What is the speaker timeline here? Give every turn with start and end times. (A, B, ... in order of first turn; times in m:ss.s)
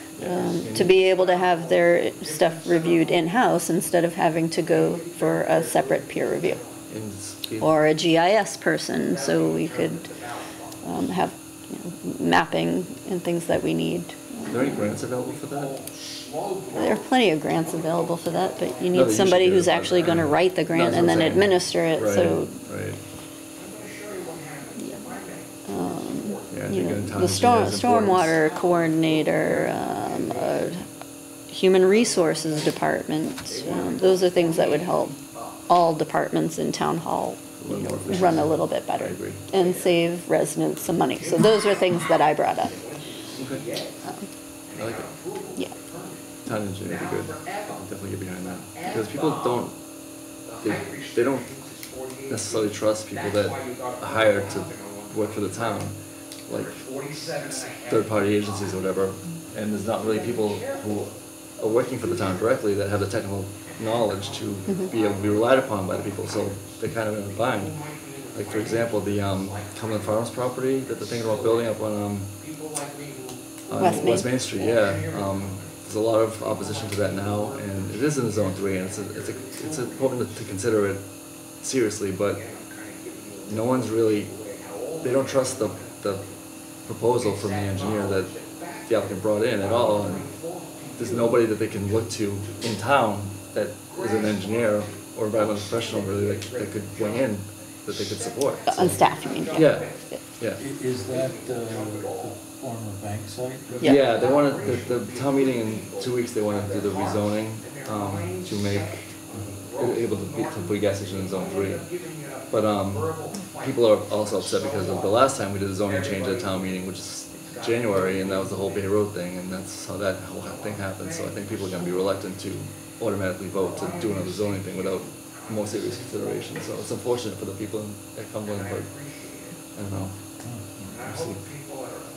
0:00.2-0:01.0 A
0:00.2-0:06.7 B
0:06.9-0:07.7 A
0:07.6-0:10.1 B
0:10.8-0:14.9 B
0:14.5-0:15.8 A
0:16.7-0:22.6 B
0:18.9-0:23.0 A
0:24.8-0:30.9 B
0:26.5-0:28.4 A
0:31.5-0:42.8 B
0:37.6-0:39.4 A
0:43.3-0:43.7 A
0:44.8-0:45.1 A
0:46.4-0:49.8 A
0:50.6-0:51.6 A
0:52.3-0:56.0 A
0:56.5-0:56.8 A
0:57.4-1:12.3 A
1:04.7-1:04.9 B
1:13.7-1:21.1 A
1:13.8-1:14.3 B
1:21.6-1:22.5 A
1:23.5-1:26.3 A
1:26.8-1:40.6 A
1:38.7-1:40.2 B
1:40.6-1:44.0 C
1:43.8-1:44.1 B
1:43.8-1:49.2 A
1:49.3-1:49.6 C
1:49.8-2:09.0 A
2:09.8-2:11.4 A